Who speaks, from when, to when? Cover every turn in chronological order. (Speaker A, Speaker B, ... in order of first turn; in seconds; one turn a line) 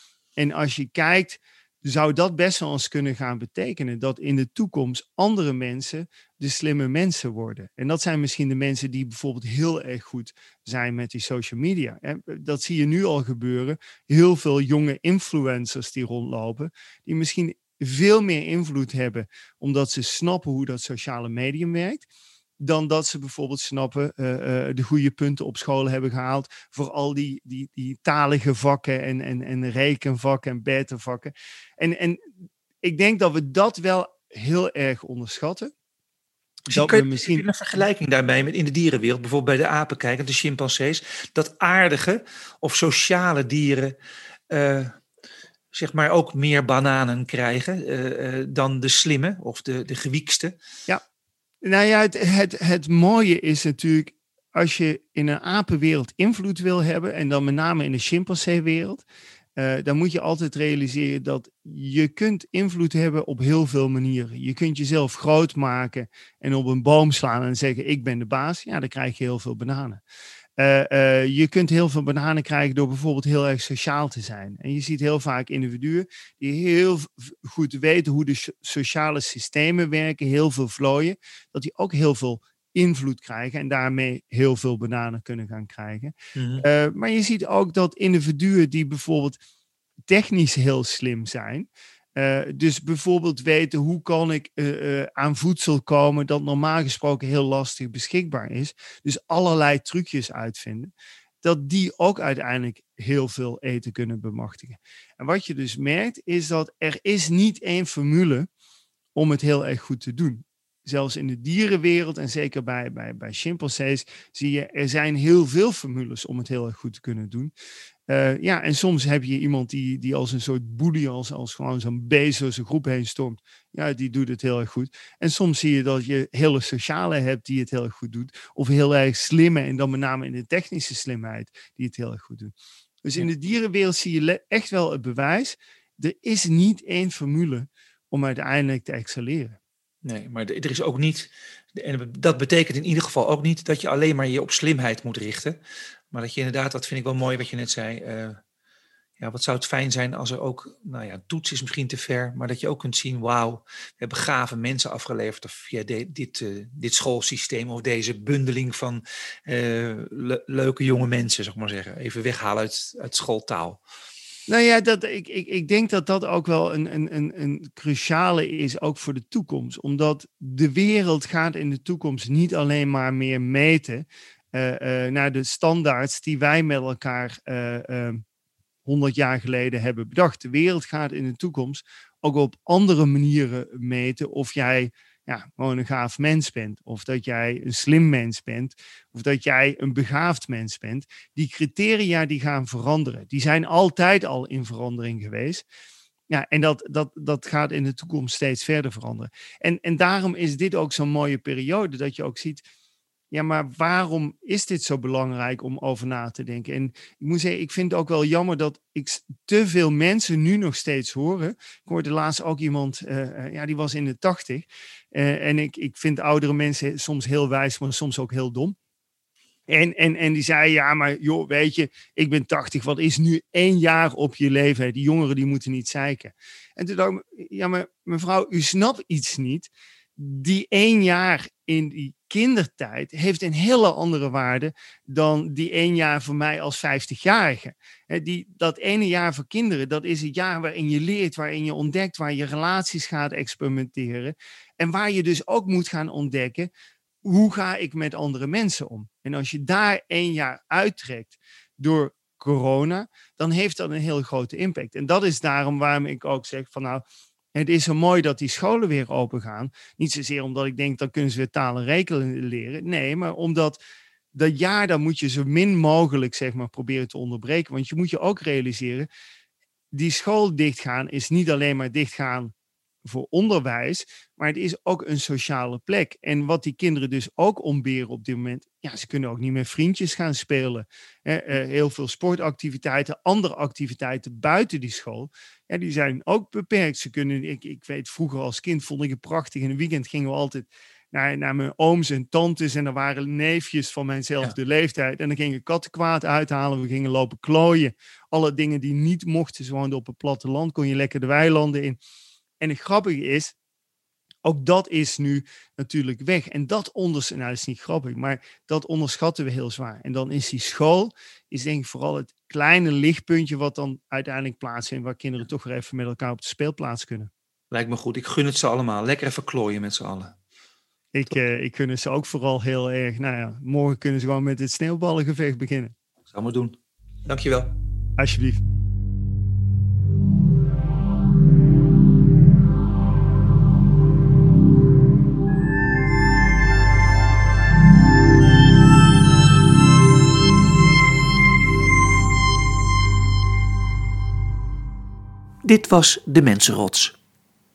Speaker A: 0.4-22.1
Speaker A: 22.6-32.2
Speaker A: 32.8-35.7
Speaker B: 36.7-43.9
Speaker A: 36.7-37.5
Speaker B: 44.5-44.9
Speaker B: 45.7-50.5
Speaker A: 51.6-59.0
Speaker A: 59.6-70.0
Speaker A: 70.6-89.4
Speaker B: 86.3-86.6
Speaker A: 90.1-108.5
Speaker A: 109.2-117.5
Speaker A: 118.1-132.5
Speaker A: 133.1-139.6
Speaker B: 140.1-145.6
Speaker B: 146.1-148.4
Speaker B: 149.2-163.8
Speaker A: 164.5-178.2
Speaker A: 178.8-195.7
Speaker A: 196.3-202.6
Speaker A: 203.3-218.8
Speaker A: 219.7-246.7
Speaker A: 247.2-263.8
Speaker A: 264.3-269.1
Speaker A: 269.9-272.5
Speaker A: 273.1-302.0
Speaker A: 302.6-303.6
Speaker A: 304.4-317.3
Speaker B: 317.7-320.4
Speaker A: 321.1-325.9
Speaker B: 326.3-326.8
Speaker B: 327.3-327.7
Speaker A: 328.2-328.6
Speaker B: 345.6-347.2